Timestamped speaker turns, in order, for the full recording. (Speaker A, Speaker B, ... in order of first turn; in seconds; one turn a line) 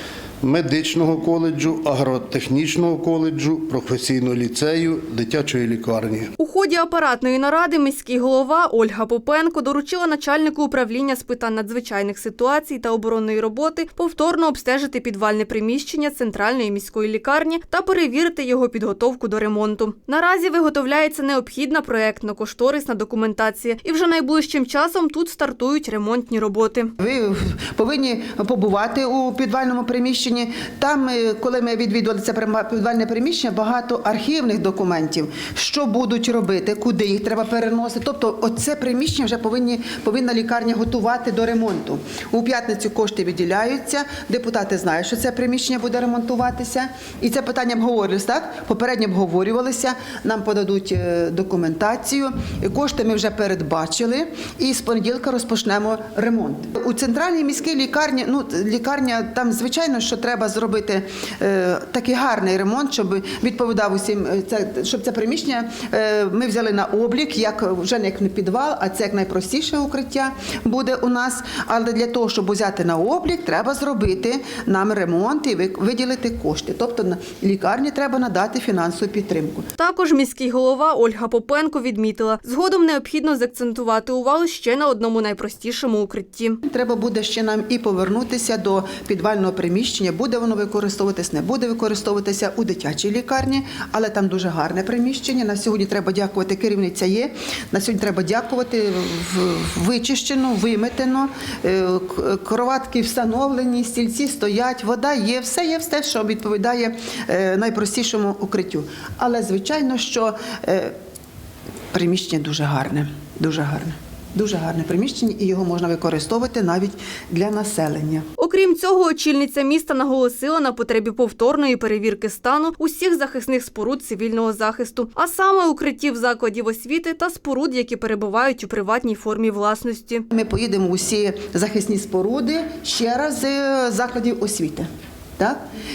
Speaker A: 0.4-6.3
Speaker B: 6.4-26.9
Speaker C: 27.0-79.7
Speaker B: 79.8-86.6
Speaker C: 86.6-110.9
Speaker C: 111.9-118.3
Speaker B: 118.4-130.2
Speaker C: 130.3-134.9